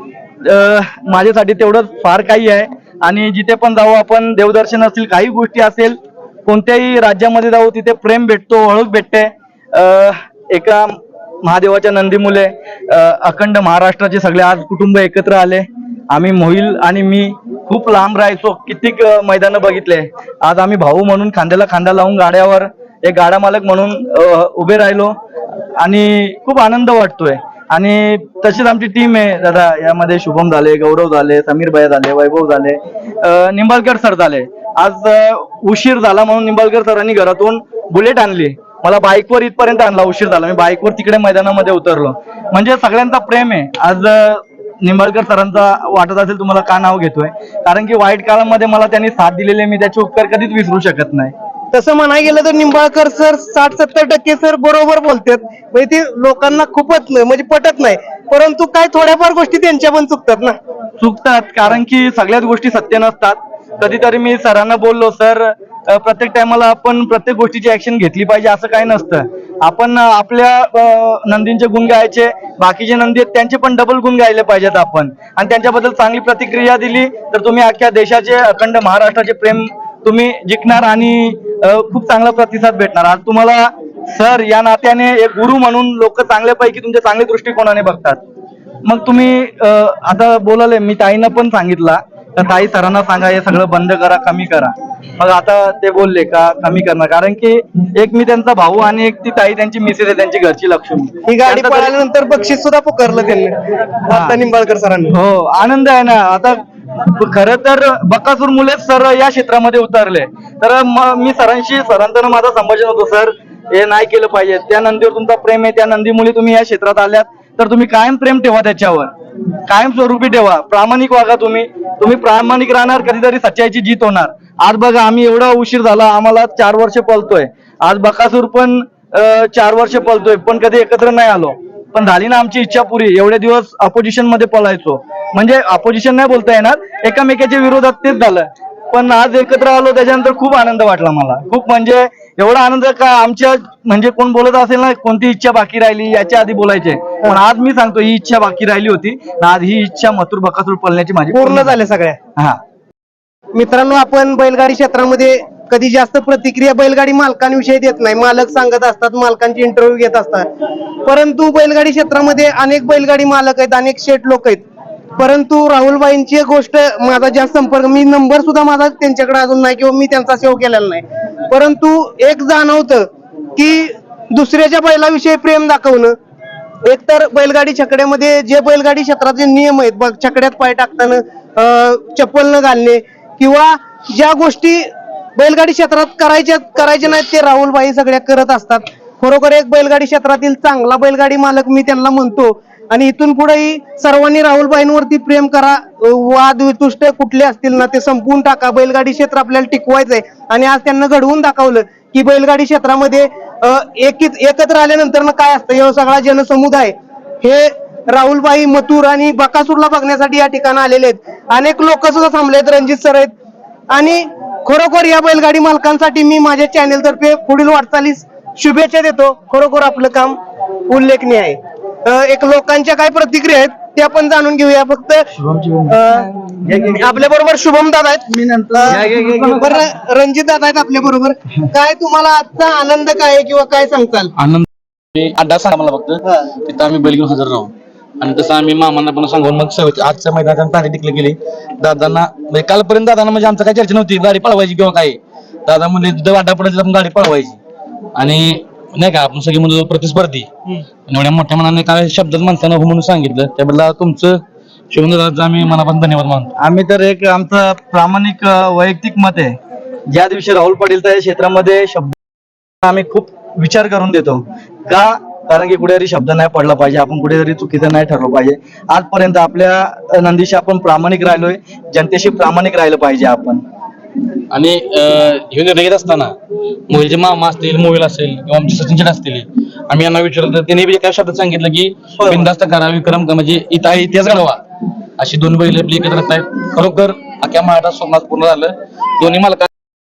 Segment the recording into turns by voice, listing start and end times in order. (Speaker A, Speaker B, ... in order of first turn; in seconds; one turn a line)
Speaker A: 0.4-25.1
Speaker A: 25.8-51.3
Speaker B: 51.7-60.6
Speaker A: 61.0-88.2
Speaker A: 88.8-101.9
Speaker B: 101.3-103.5
Speaker B: 104.1-105.2
Speaker A: 104.1-104.4
Speaker A: 105.1-119.1
Speaker A: 119.7-151.8
Speaker B: 151.3-152.2
Speaker B: 153.6-160.5
Speaker B: 161.1-164.6
Speaker B: 165.2-176.1
Speaker B: 176.8-213.3
Speaker B: 213.9-220.4
Speaker B: 220.9-225.3
Speaker A: 225.3-227.1
Speaker B: 225.9-229.0
Speaker A: 228.3-229.8
Speaker C: 228.9-229.7
Speaker B: 229.6-234.3
Speaker C: 234.4-247.6
Speaker C: 248.2-250.5
Speaker C: 251.1-256.5
Speaker A: 256.6-259.6
Speaker A: 260.1-262.1
Speaker A: 262.8-273.6
Speaker C: 274.5-276.4
Speaker C: 276.9-284.6
Speaker C: 285.2-289.7